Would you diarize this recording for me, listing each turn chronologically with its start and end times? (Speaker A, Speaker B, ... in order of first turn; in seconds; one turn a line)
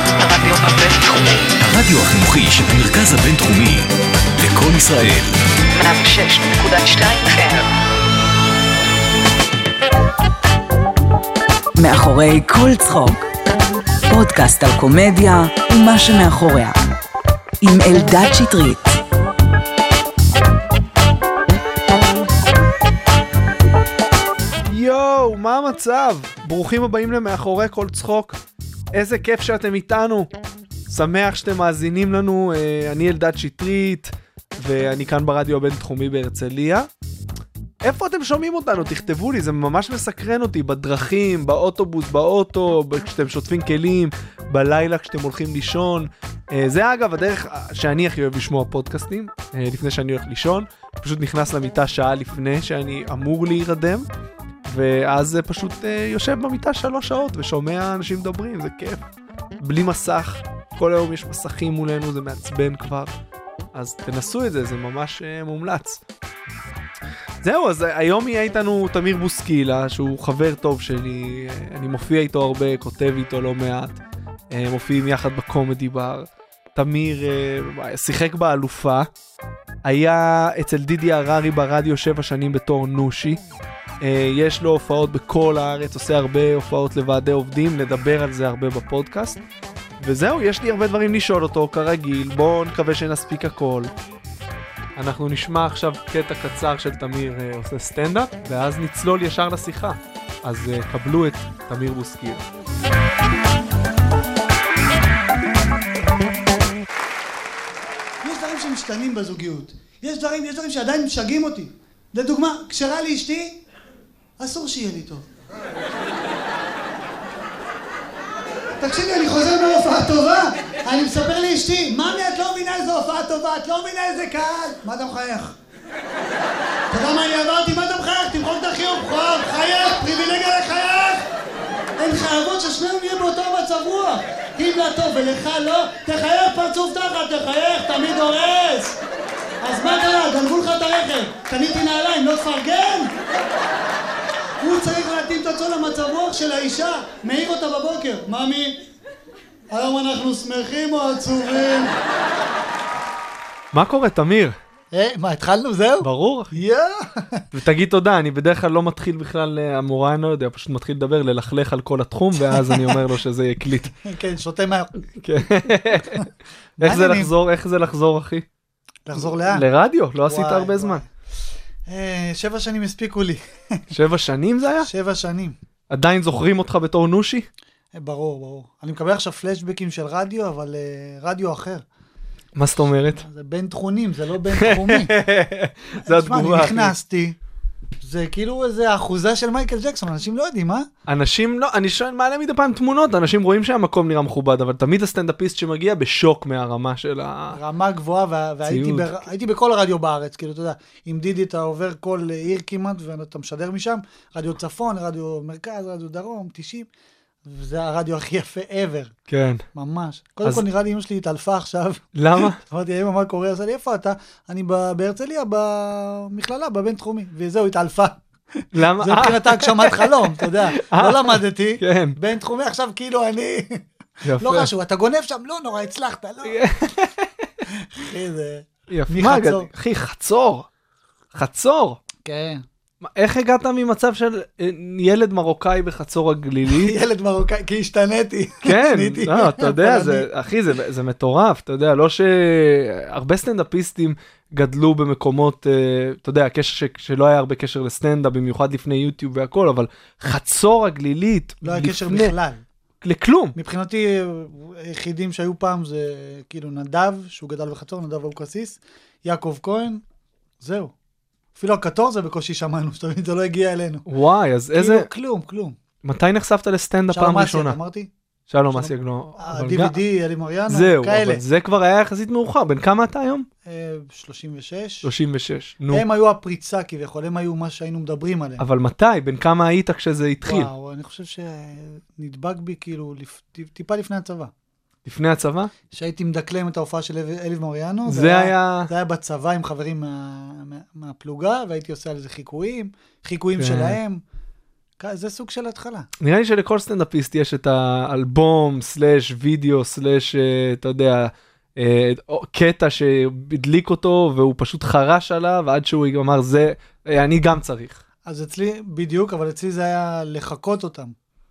Speaker A: 0.2-1.5
Speaker B: 1.6-5.4
Speaker A: 5.7-7.7
Speaker C: 11.8-13.2
Speaker C: 14.1-16.8
Speaker C: 17.6-18.9
Speaker D: 24.7-28.4
Speaker D: 28.9-30.3
Speaker D: 30.9-36.9
Speaker D: 37.8-54.1
Speaker D: 54.6-59.1
Speaker D: 59.6-63.1
Speaker D: 63.7-66.0
Speaker D: 67.4-74.0
Speaker D: 74.5-79.1
Speaker D: 79.8-83.4
Speaker D: 84.0-89.4
Speaker D: 90.0-93.9
Speaker D: 95.0-102.4
Speaker E: 108.2-113.6
Speaker E: 114.4-115.3
Speaker E: 118.7-125.5
Speaker E: 126.9-131.3
Speaker E: 132.0-139.0
Speaker E: 139.6-143.1
Speaker E: 144.6-148.8
Speaker E: 149.7-151.9
Speaker D: 153.7-154.5
Speaker E: 154.9-157.5
Speaker D: 156.0-156.6
Speaker D: 157.5-163.9
Speaker E: 162.5-163.0
Speaker E: 164.0-166.2
Speaker D: 165.2-166.2
Speaker E: 166.8-167.3
Speaker D: 166.8-168.4
Speaker E: 169.1-169.7
Speaker D: 169.1-171.0
Speaker E: 170.2-171.1
Speaker E: 171.9-173.9
Speaker D: 173.9-174.9
Speaker E: 174.8-175.6
Speaker D: 175.9-177.5
Speaker E: 177.9-181.8
Speaker D: 182.5-183.2
Speaker E: 183.2-185.1
Speaker D: 184.5-186.9
Speaker E: 186.0-187.3
Speaker E: 188.0-190.9
Speaker D: 191.1-197.6
Speaker E: 197.5-206.9
Speaker D: 198.7-199.2
Speaker E: 207.4-209.1
Speaker D: 209.3-209.6
Speaker E: 209.7-223.8
Speaker D: 212.2-212.6
Speaker D: 218.7-222.2
Speaker D: 224.2-224.7
Speaker E: 224.4-226.8
Speaker D: 226.4-227.5
Speaker E: 227.7-229.7
Speaker D: 228.9-230.7
Speaker D: 231.3-232.0
Speaker E: 232.2-232.6
Speaker D: 233.0-236.9
Speaker E: 236.7-240.3
Speaker D: 238.6-252.3
Speaker E: 251.6-252.6
Speaker D: 253.0-253.5
Speaker E: 253.5-260.0
Speaker E: 260.6-260.9
Speaker E: 261.6-264.1
Speaker D: 264.1-265.1
Speaker E: 264.7-265.8
Speaker D: 266.0-267.8
Speaker E: 267.1-268.1
Speaker D: 268.5-270.0
Speaker E: 268.7-271.4
Speaker D: 270.7-273.5
Speaker E: 273.6-275.1
Speaker D: 275.0-276.1
Speaker E: 275.9-278.6
Speaker D: 278.6-280.7
Speaker E: 280.4-284.5
Speaker D: 285.0-285.7
Speaker E: 285.9-294.2
Speaker D: 288.1-288.9
Speaker D: 293.6-294.0
Speaker E: 295.0-296.1
Speaker D: 296.2-308.0
Speaker E: 308.2-311.1